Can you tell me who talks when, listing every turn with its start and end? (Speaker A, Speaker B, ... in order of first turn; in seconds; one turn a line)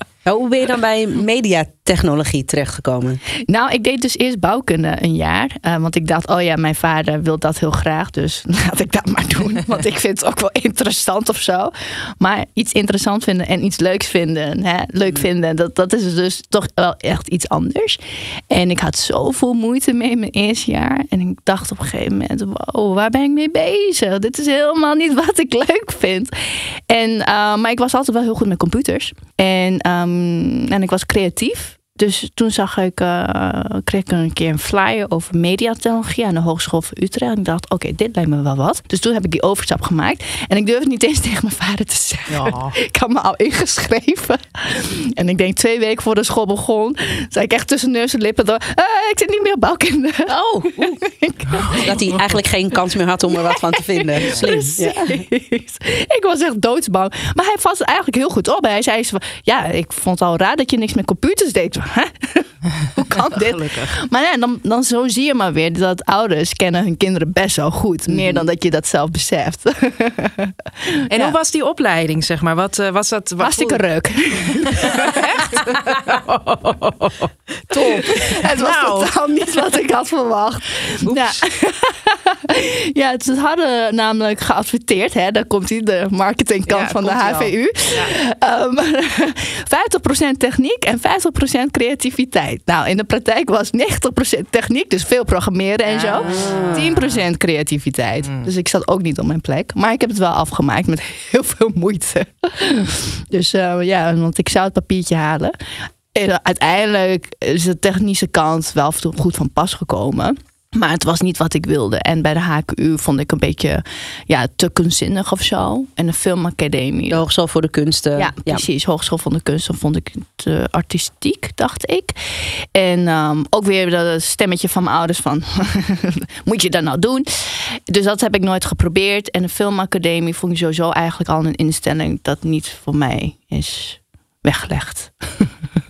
Speaker A: 0.2-3.2
Speaker B: 3.5-52.0
Speaker C: 42.3-42.7
Speaker A: 50.3-51.0
Speaker C: 51.5-52.3
Speaker A: 51.7-55.2
Speaker B: 53.5-71.3
Speaker C: 63.3-63.9
Speaker A: 68.1-68.4
Speaker C: 71.1-73.8
Speaker B: 73.4-75.6
Speaker C: 74.7-79.1
Speaker B: 77.8-105.6
Speaker C: 81.0-81.4
Speaker C: 86.7-88.1
Speaker C: 95.8-97.2
Speaker A: 96.2-96.9
Speaker C: 98.2-98.5
Speaker B: 106.1-117.2
Speaker A: 117.1-118.6
Speaker B: 118.2-135.5